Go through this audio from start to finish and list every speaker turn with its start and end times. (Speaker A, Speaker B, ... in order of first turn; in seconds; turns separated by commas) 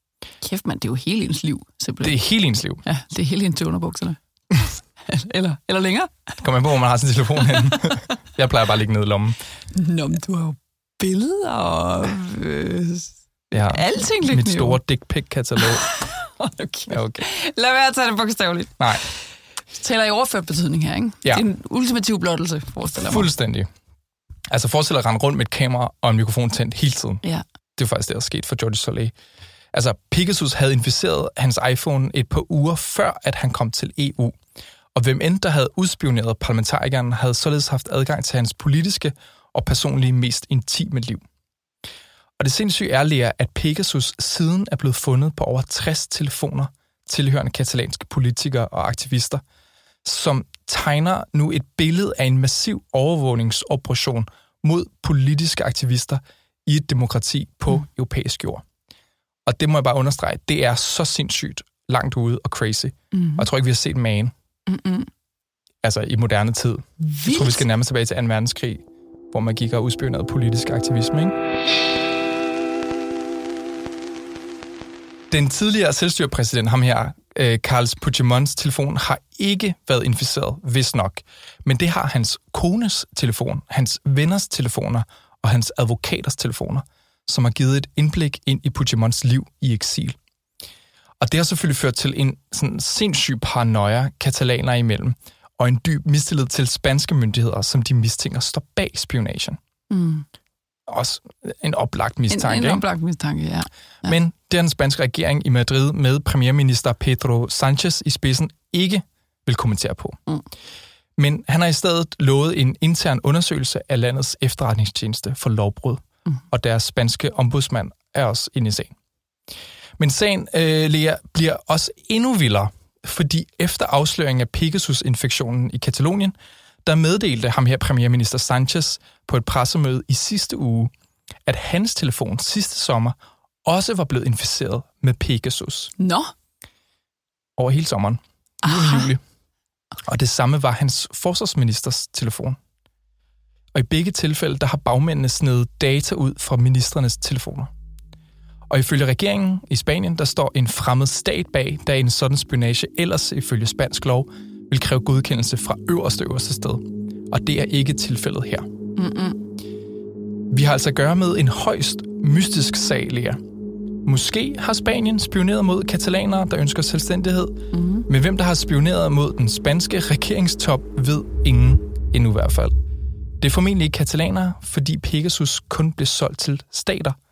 Speaker A: 0.4-2.2, Speaker B: 2.0-2.8, Speaker A: 2.8-4.2, Speaker A: 5.0-6.4, Speaker B: 6.4-9.4, Speaker A: 7.4-8.0, Speaker A: 9.7-14.8, Speaker B: 13.5-15.9, Speaker A: 15.6-23.3, Speaker B: 16.9-17.2, Speaker B: 18.8-19.1, Speaker B: 23.0-23.7, Speaker B: 24.5-27.2, Speaker B: 27.8-29.1, Speaker B: 29.7-34.4, Speaker B: 34.9-41.2, Speaker B: 42.4-49.4, Speaker B: 50.0-58.6, Speaker B: 59.5-64.3, Speaker A: 63.1-63.5, Speaker A: 64.7-65.1, Speaker B: 65.8-71.3, Speaker A: 67.0-67.7, Speaker B: 75.3-90.2, Speaker B: 91.2-99.6, Speaker A: 99.9-100.3, Speaker B: 100.9-102.8, Speaker A: 102.3-104.1, Speaker B: 104.0-110.2, Speaker B: 111.2-118.9, Speaker B: 120.0-126.3, Speaker B: 126.9-130.9, Speaker B: 131.5-135.9, Speaker A: 136.0-136.3, Speaker B: 137.6-139.2, Speaker A: 138.6-139.1, Speaker B: 140.1-142.6, Speaker B: 143.8-147.7, Speaker B: 148.7-158.7, Speaker A: 159.0-159.4, Speaker B: 160.5-163.4, Speaker B: 164.1-172.8, Speaker A: 167.7-168.1, Speaker B: 173.4-177.2